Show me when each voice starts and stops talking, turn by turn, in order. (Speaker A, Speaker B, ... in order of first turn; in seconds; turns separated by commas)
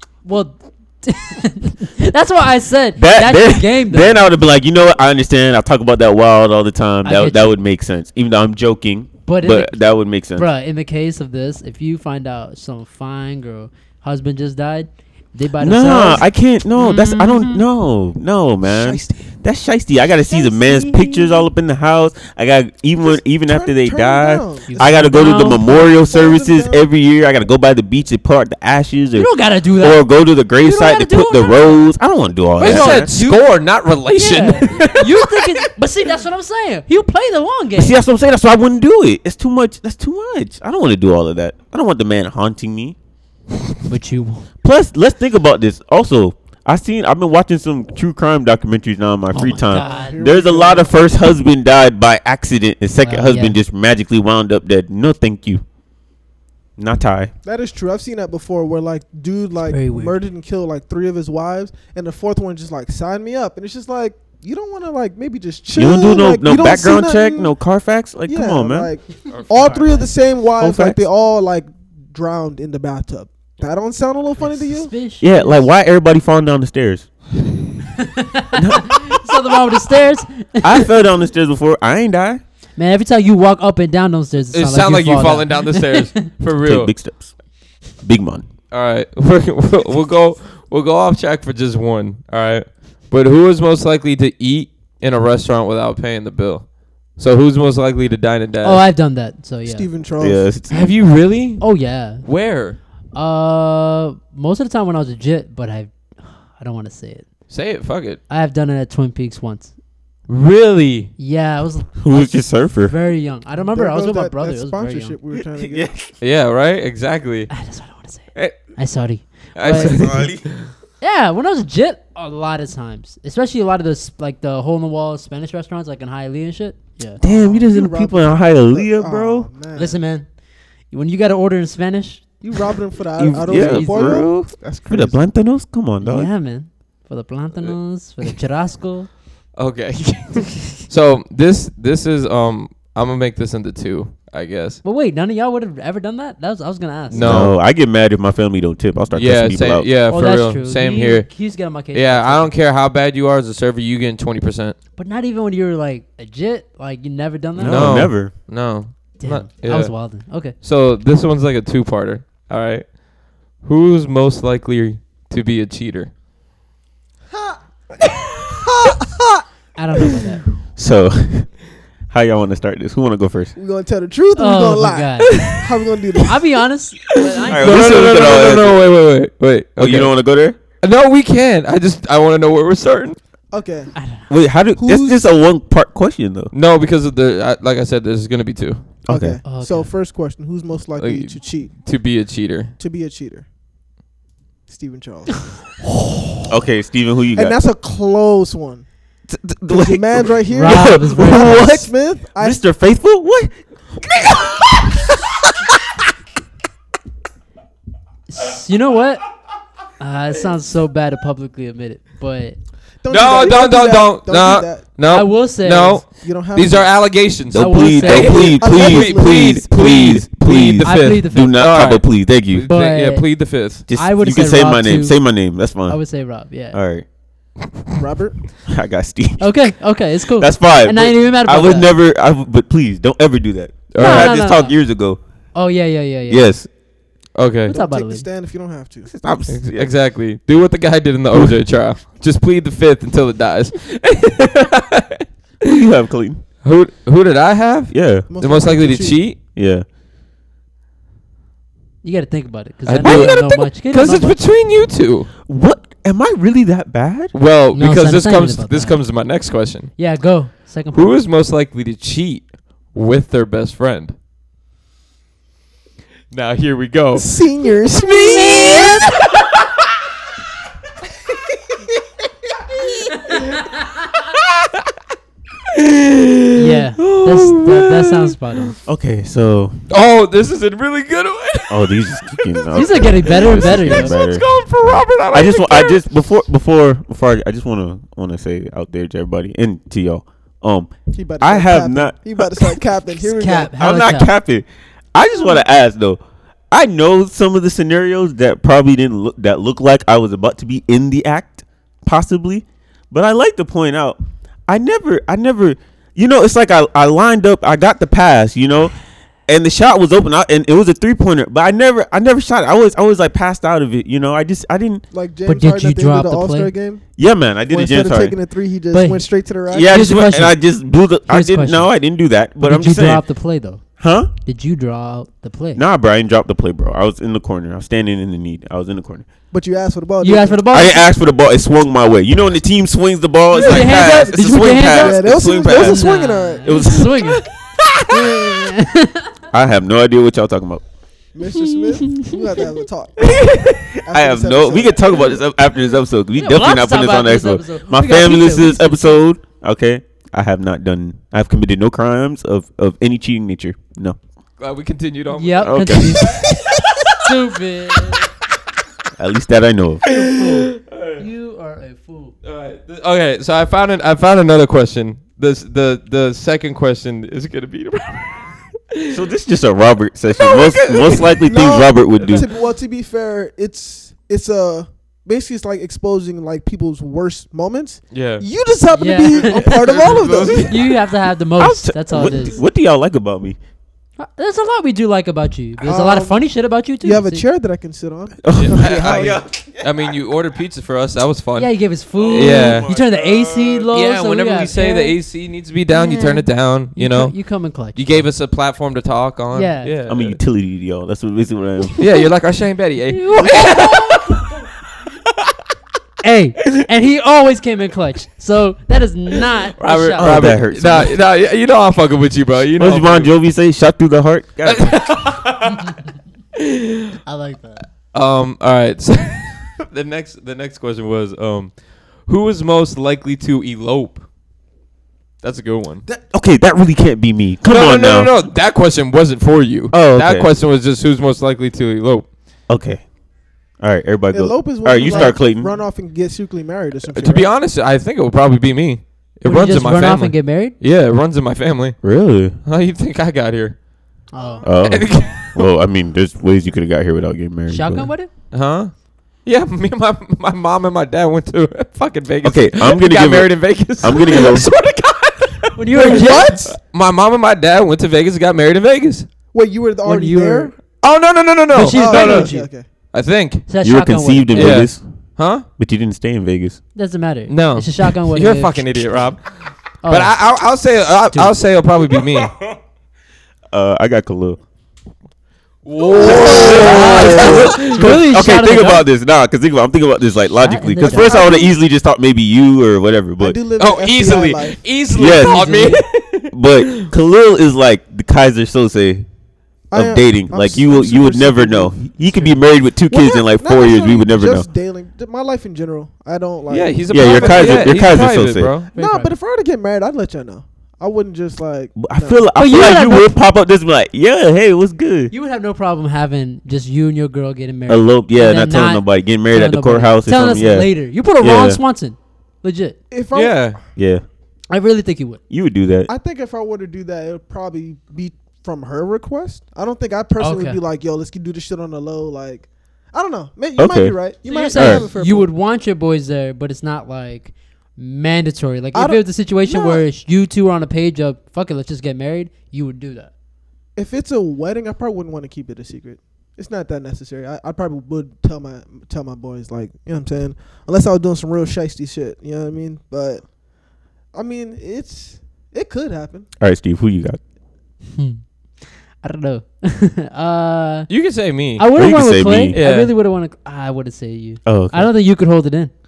Speaker A: 0.2-4.2, Speaker B: 3.0-10.5, Speaker A: 7.0-7.5, Speaker A: 9.2-17.6, Speaker B: 15.6-33.1, Speaker C: 18.6-19.2, Speaker A: 20.3-20.8, Speaker C: 20.7-21.3, Speaker C: 23.0-26.8, Speaker A: 24.7-25.7, Speaker A: 29.1-30.1, Speaker A: 30.6-31.9, Speaker A: 32.6-33.4, Speaker D: 32.6-35.0, Speaker A: 34.1-38.0, Speaker B: 34.8-35.1, Speaker B: 37.8-42.9, Speaker A: 43.9-44.5, Speaker B: 44.6-55.6, Speaker A: 49.3-50.1, Speaker C: 49.7-50.9, Speaker A: 53.0-53.6, Speaker B: 56.8-57.3, Speaker C: 57.4-67.5, Speaker A: 59.7-60.2, Speaker B: 65.7-68.9, Speaker C: 68.2-74.9, Speaker D: 69.3-69.7, Speaker A: 69.4-70.1, Speaker B: 70.6-71.0, Speaker A: 74.4-75.7, Speaker B: 75.2-77.1, Speaker A: 78.0-80.9, Speaker B: 78.5-79.5, Speaker B: 80.6-82.4, Speaker A: 82.8-86.2, Speaker D: 84.5-86.9, Speaker B: 86.6-87.3, Speaker B: 88.0-88.5, Speaker D: 88.7-98.8, Speaker A: 98.6-99.9, Speaker C: 99.6-100.5, Speaker B: 100.2-100.9, Speaker D: 100.7-101.7, Speaker A: 101.6-102.2, Speaker D: 102.2-102.8, Speaker A: 103.1-107.3, Speaker D: 107.5-108.2, Speaker A: 108.3-109.7, Speaker D: 110.3-111.1, Speaker A: 111.2-115.2, Speaker B: 112.0-112.9, Speaker C: 113.6-115.9, Speaker B: 115.6-116.1, Speaker D: 116.2-117.5, Speaker A: 117.5-120.1, Speaker D: 119.5-120.7, Speaker B: 119.7-120.5, Speaker A: 121.0-127.2, Speaker C: 127.2-130.0, Speaker B: 127.2-129.5, Speaker A: 129.7-130.3, Speaker A: 130.9-132.3, Speaker C: 132.4-135.2, Speaker B: 133.2-136.3, Speaker A: 133.5-134.2, Speaker A: 136.0-139.1, Speaker D: 139.6-144.8, Speaker A: 144.8-147.4, Speaker D: 147.1-147.5, Speaker B: 147.2-149.9, Speaker D: 149.1-151.3, Speaker A: 150.1-152.5, Speaker D: 151.9-154.8, Speaker A: 155.0-158.1, Speaker B: 157.6-158.3, Speaker D: 157.6-159.9, Speaker A: 159.2-160.5, Speaker D: 160.6-162.9, Speaker D: 163.6-166.1, Speaker C: 167.3-167.6, Speaker C: 168.5-169.4, Speaker A: 169.8-170.4, Speaker B: 170.8-171.5, Speaker B: 172.1-173.5, Speaker C: 173.5-176.4, Speaker A: 174.3-175.5, Speaker D: 175.3-175.7, Speaker A: 176.2-178.4, Speaker D: 177.1-180.1, Speaker B: 177.5-178.8, Speaker B: 179.8-180.6, Speaker D: 180.8-183.2, Speaker C: 183.5-183.9, Speaker A: 183.9-184.3, Speaker B: 184.3-186.5, Speaker C: 184.8-185.2, Speaker D: 186.5-188.8, Speaker B: 189.1-189.4, Speaker C: 189.1-191.7, Speaker A: 189.4-189.9, Speaker D: 191.0-192.7, Speaker C: 192.8-193.4, Speaker C: 194.7-195.5, Speaker B: 196.5-197.6, Speaker C: 197.3-198.8, Speaker B: 199.3-205.7, Speaker C: 199.7-202.6, Speaker A: 200.5-201.7, Speaker A: 208.3-209.2, Speaker A: 210.0-212.6, Speaker C: 213.0-214.8, Speaker D: 213.1-223.8, Speaker A: 215.1-216.0, Speaker C: 216.2-216.9, Speaker B: 217.5-222.7, Speaker A: 217.5-218.5, Speaker C: 218.3-219.7, Speaker A: 220.8-221.6, Speaker A: 222.7-223.3, Speaker B: 223.9-226.0, Speaker A: 223.9-225.2, Speaker A: 225.9-226.8, Speaker B: 226.7-227.1, Speaker C: 228.0-228.4, Speaker B: 228.7-229.5, Speaker A: 229.4-231.9, Speaker B: 230.4-235.2, Speaker D: 233.9-234.3, Speaker A: 234.0-234.8, Speaker A: 235.5-236.5, Speaker B: 236.3-236.7, Speaker D: 237.3-237.7, Speaker A: 237.7-238.3, Speaker C: 237.7-239.1, Speaker B: 239.1-239.9, Speaker D: 239.5-245.8, Speaker B: 245.6-246.4, Speaker D: 246.6-249.4, Speaker B: 247.9-248.3, Speaker C: 248.3-249.2, Speaker B: 249.5-249.8, Speaker A: 252.0-254.4, Speaker D: 252.8-255.3, Speaker B: 253.0-253.4, Speaker B: 255.4-257.3, Speaker D: 257.3-259.9, Speaker A: 257.7-259.0, Speaker A: 260.0-261.1, Speaker D: 260.9-264.1, Speaker D: 266.3-267.3, Speaker C: 267.1-269.1, Speaker D: 267.9-269.4, Speaker A: 268.5-269.0, Speaker D: 272.9-274.7, Speaker D: 275.7-278.4, Speaker A: 276.5-278.8, Speaker B: 278.9-279.8, Speaker D: 279.9-286.0, Speaker B: 281.7-292.8, Speaker A: 282.7-284.1, Speaker C: 291.1-293.7, Speaker A: 293.2-294.3, Speaker B: 293.8-296.2, Speaker B: 296.7-308.9, Speaker B: 309.5-315.0, Speaker C: 315.1-317.0, Speaker A: 315.4-316.7, Speaker B: 317.2-318.4, Speaker C: 317.7-320.0, Speaker A: 318.9-319.2, Speaker B: 319.7-323.2, Speaker A: 319.8-320.6, Speaker A: 321.3-321.9, Speaker A: 322.6-323.8, Speaker B: 324.0-324.3, Speaker A: 324.4-325.8, Speaker B: 325.7-329.3, Speaker C: 329.5-330.6, Speaker A: 330.2-331.1, Speaker B: 330.7-336.1, Speaker A: 333.5-337.4, Speaker C: 333.6-336.9, Speaker B: 336.6-338.4, Speaker A: 338.1-339.3, Speaker B: 339.5-340.8, Speaker C: 341.3-343.4, Speaker A: 341.5-342.3, Speaker B: 343.2-354.2, Speaker C: 344.0-345.3, Speaker A: 346.4-349.2, Speaker D: 354.6-357.0, Speaker A: 355.3-356.5, Speaker B: 355.6-356.6, Speaker A: 357.1-358.2, Speaker B: 359.2-360.0, Speaker A: 360.0-362.3, Speaker D: 360.1-361.2, Speaker D: 362.4-369.2, Speaker B: 369.1-372.4, Speaker D: 370.3-371.4, Speaker C: 371.4-380.8, Speaker D: 372.2-372.5, Speaker D: 378.1-378.4, Speaker A: 378.9-382.6, Speaker D: 379.3-381.0, Speaker B: 381.6-383.6, Speaker A: 384.2-387.4, Speaker C: 385.8-386.5, Speaker C: 387.0-389.4, Speaker B: 388.4-390.1, Speaker D: 388.5-392.9, Speaker A: 391.6-395.1, Speaker B: 392.1-393.9, Speaker D: 393.9-397.4, Speaker A: 395.9-398.3, Speaker D: 397.9-400.4, Speaker A: 399.5-399.9, Speaker B: 400.1-402.0, Speaker D: 402.0-404.5, Speaker A: 403.1-404.3, Speaker A: 406.2-410.5, Speaker D: 409.8-413.3, Speaker B: 410.2-411.1, Speaker B: 412.8-415.1, Speaker D: 414.6-416.0, Speaker D: 416.6-417.1, Speaker A: 417.2-417.8, Speaker D: 418.1-424.2, Speaker D: 425.4-426.0, Speaker B: 426.3-428.3, Speaker D: 427.6-432.3, Speaker B: 429.9-430.5, Speaker B: 432.7-433.0, Speaker B: 433.8-435.8, Speaker C: 434.3-437.5, Speaker A: 435.0-435.4, Speaker D: 437.1-442.0, Speaker A: 439.4-440.8, Speaker B: 442.0-442.6, Speaker D: 442.6-443.8, Speaker A: 444.3-444.6, Speaker C: 444.4-444.7, Speaker B: 444.6-448.1, Speaker D: 444.8-445.7, Speaker A: 447.7-448.3, Speaker D: 448.5-448.9, Speaker D: 449.4-459.3, Speaker B: 452.4-454.7, Speaker A: 455.8-456.6, Speaker C: 455.9-456.7, Speaker C: 459.5-460.7, Speaker A: 460.0-460.7, Speaker D: 461.0-462.5, Speaker A: 461.7-462.7, Speaker C: 461.9-462.9, Speaker D: 463.1-463.7, Speaker A: 463.7-464.8, Speaker B: 463.8-465.0, Speaker D: 464.5-465.6, Speaker B: 465.8-466.8, Speaker A: 466.9-468.9, Speaker D: 467.5-472.5, Speaker A: 470.0-470.4, Speaker B: 473.7-474.6, Speaker D: 475.8-478.1, Speaker C: 476.1-477.0, Speaker B: 476.2-483.6, Speaker A: 476.2-479.1, Speaker A: 480.6-481.5, Speaker C: 481.0-481.7, Speaker C: 483.4-484.8, Speaker D: 483.8-487.1, Speaker B: 485.1-485.7, Speaker A: 485.2-486.0, Speaker B: 486.5-489.3, Speaker C: 489.9-492.0, Speaker B: 489.9-494.7, Speaker C: 493.1-498.1, Speaker D: 496.7-498.9, Speaker B: 497.1-498.7, Speaker A: 498.9-499.3, Speaker C: 498.9-502.4, Speaker B: 502.0-505.3, Speaker A: 502.6-503.3, Speaker A: 505.3-513.0, Speaker B: 507.9-511.8, Speaker C: 513.1-513.8, Speaker D: 513.3-513.8, Speaker B: 514.0-514.2, Speaker A: 514.7-515.4, Speaker B: 515.5-516.1, Speaker C: 516.1-525.5, Speaker A: 520.4-520.8, Speaker B: 523.8-524.1, Speaker A: 524.4-533.3, Speaker B: 524.7-525.1, Speaker C: 528.9-530.0, Speaker C: 534.0-543.4, Speaker C: 544.3-546.5, Speaker B: 546.6-547.4, Speaker A: 548.1-548.4, Speaker A: 549.2-551.1, Speaker D: 551.1-551.9, Speaker A: 551.8-555.9, Speaker B: 551.9-552.8, Speaker D: 552.7-553.1, Speaker B: 554.6-555.1